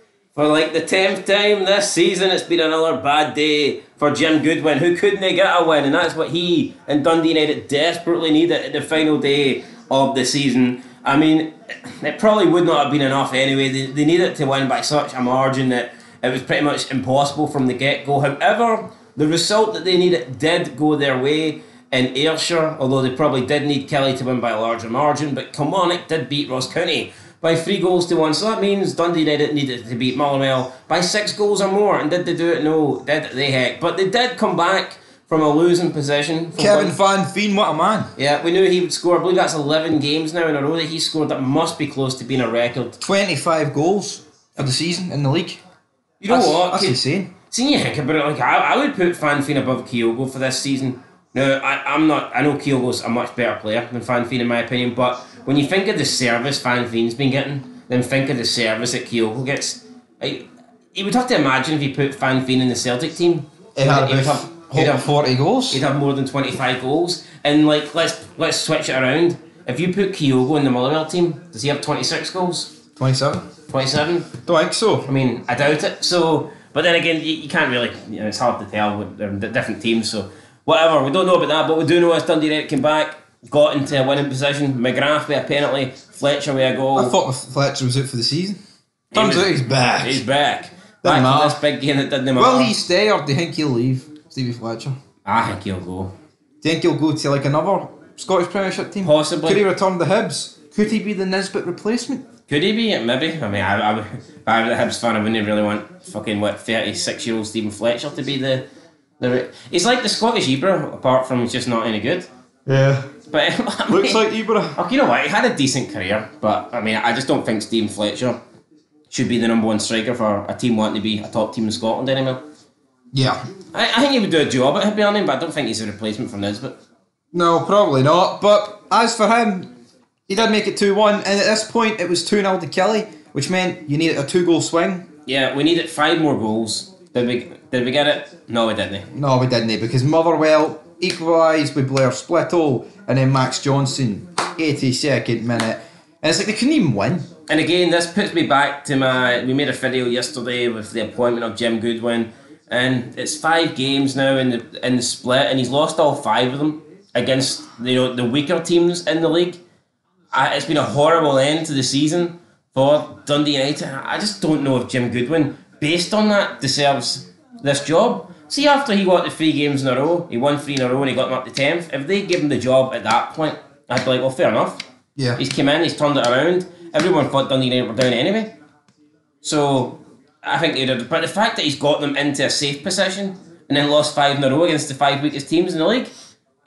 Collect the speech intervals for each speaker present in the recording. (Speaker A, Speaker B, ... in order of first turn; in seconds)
Speaker A: 0.3-37.0, 38.2-43.0, 46.2-65.1, 65.7-72.8, 73.7-74.3, 75.1-87.2, 89.1-92.8, 95.2-96.1, 99.0-99.6, 102.5-108.6, 109.2-112.3, 113.3-114.2, 114.8-118.4, 119.1-122.4, 123.7-126.8, 135.3-139.1, 147.5-159.6, 160.3-174.8, 175.4-178.5, 179.4-186.1
Speaker B: 36.6-38.1, 43.0-45.6, 46.3-47.3, 63.8-65.8, 73.0-73.5, 74.5-75.1, 87.0-88.6, 89.1-90.2, 91.0-91.6, 92.3-95.0, 96.6-102.2, 112.7-113.1, 113.9-114.8, 123.1-123.4, 127.3-129.7, 130.3-135.1, 139.1-147.3, 175.2-175.4